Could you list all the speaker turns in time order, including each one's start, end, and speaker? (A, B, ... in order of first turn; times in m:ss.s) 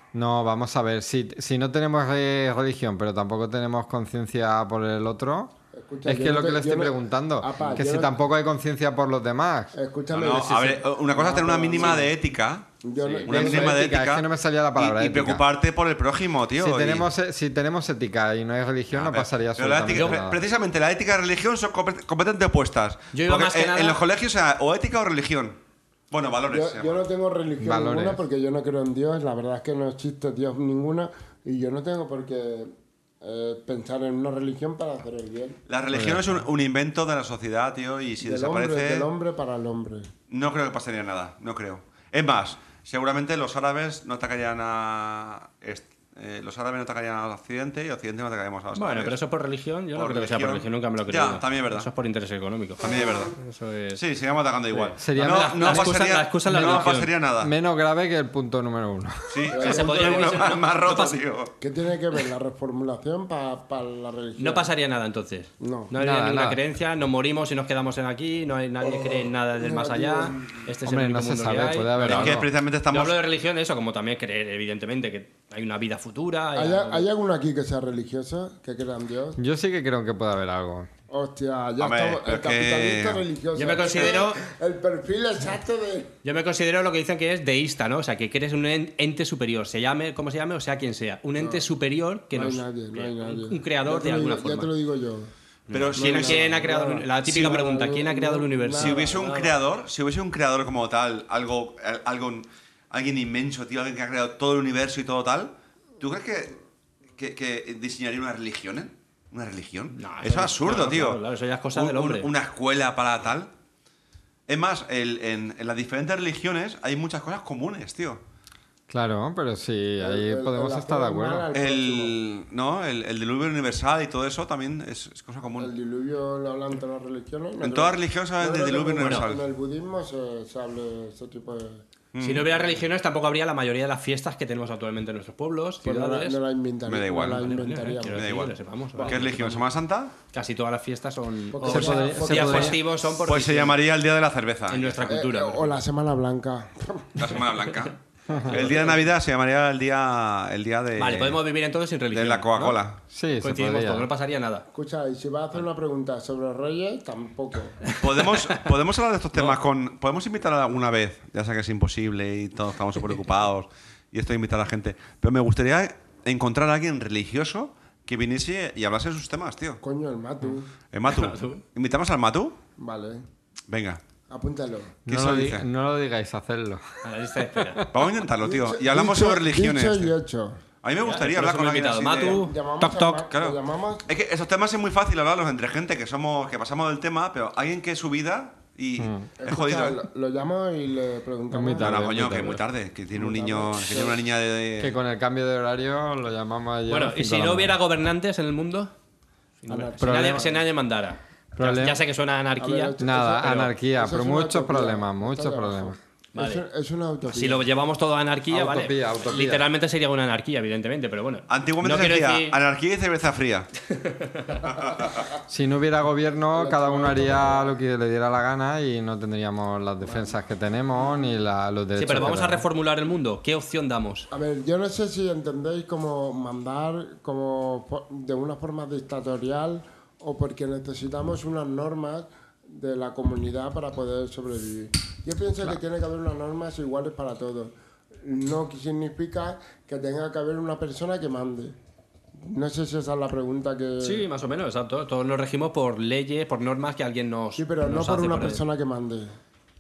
0:00.1-0:05.5 A
0:05.7-0:08.2 B
0:06.0-0:09.8 A
0:09.8-0:12.1 B
0:10.1-0:12.7 C
0:12.8-0:13.8 B
0:13.0-0:13.3 D
0:13.2-0:17.1 C
0:13.3-0:15.4 A
0:16.6-0:20.4 A
0:18.9-0:25.6 C
0:19.9-0:20.2 D
0:23.1-0:24.0 D
0:26.1-0:27.0 C
0:26.5-0:35.6 B
0:27.6-0:28.2 A
0:35.7-0:39.1 C
0:35.9-0:36.4 A
0:38.2-0:40.1 B
0:40.3-0:49.2 C
0:48.8-0:54.0 D
0:50.0-0:51.9 C
0:52.8-0:53.3 C
0:54.0-0:57.5 C
0:54.7-0:57.1 D
0:55.0-0:59.5 A
0:59.3-1:01.6 C
0:59.5-1:00.4 B
0:59.6-1:01.2 D
1:01.6-1:04.7 B
1:04.4-1:17.1 D
1:05.6-1:05.9 B
1:06.0-1:06.6 A
1:08.8-1:10.7 B
1:10.8-1:12.5 A
1:12.1-1:13.2 C
1:16.6-1:19.4 B
1:19.4-1:20.9 A
1:21.1-1:26.2 B
1:21.8-1:23.2 C
1:23.6-1:24.4 D
1:26.2-1:34.7 D
1:31.4-1:31.6 B
1:32.3-1:35.3 B
1:35.7-1:39.5 D
1:35.7-1:36.6 C
1:36.0-1:39.4 B
1:38.8-1:46.6 C
1:47.2-1:51.2 C
1:49.9-1:52.3 D
1:51.7-1:53.5 C
1:54.5-1:58.2 C
1:58.9-2:01.5 A
2:00.0-2:02.2 B
2:01.5-2:05.7 C
2:05.6-2:11.8 B
2:07.6-2:09.4 C
2:09.0-2:09.3 D
2:12.1-2:12.5 C
2:12.2-2:16.4 D
2:15.8-2:18.4 B
2:16.8-2:20.1 C
2:17.3-2:19.7 D
2:20.3-2:23.8 D
2:21.5-2:22.8 B
2:21.6-2:22.8 A
2:22.4-2:25.1 C
2:24.7-2:25.8 D
2:25.1-2:27.2 B
2:27.2-2:28.0 C
2:28.3-2:29.0 B
2:28.5-2:29.0 D
2:28.5-2:31.4 C
2:31.0-2:32.8 D
2:32.1-2:33.0 C
2:33.1-2:34.1 A
2:33.4-2:34.7 D
2:34.7-2:37.8 B
2:37.8-2:38.6 D
2:38.0-2:49.8 C
2:49.8-2:50.7 B
2:50.9-2:52.6 C
2:51.1-2:51.6 D
2:52.8-2:53.2 B
2:53.7-2:54.0 C
2:54.3-2:55.0 B
2:55.1-2:57.9 A
2:55.1-2:55.7 C
2:57.0-2:57.8 D
2:57.9-3:00.2 C
2:58.4-3:00.6 B
3:00.8-3:02.4 C
3:01.0-3:03.2 D
3:02.2-3:04.0 B
3:03.3-3:10.0 C
3:09.0-3:09.3 A
3:09.4-3:12.6 B
3:11.5-3:12.6 A
3:11.8-3:15.0 C
3:13.1-3:14.2 B
3:14.8-3:17.8 A
3:16.9-3:18.9 D
3:19.6-3:23.6 D
3:19.7-3:20.6 B
3:20.0-3:20.5 A
3:21.6-3:22.0 A
3:22.6-3:27.6 B
3:23.0-3:26.0 A
3:26.3-3:26.6 D
3:27.3-3:32.6 D
3:28.5-3:29.7 A
3:31.5-3:33.7 C
3:33.9-3:34.6 D
3:34.6-3:35.2 C
3:35.5-3:42.7 A
3:36.5-3:37.8 B
3:40.0-3:40.3 B
3:41.0-3:41.3 B
3:42.0-3:44.3 D
3:44.3-4:01.8 B
4:02.4-4:04.3 B
4:04.0-4:08.6 D
4:07.6-4:09.4 B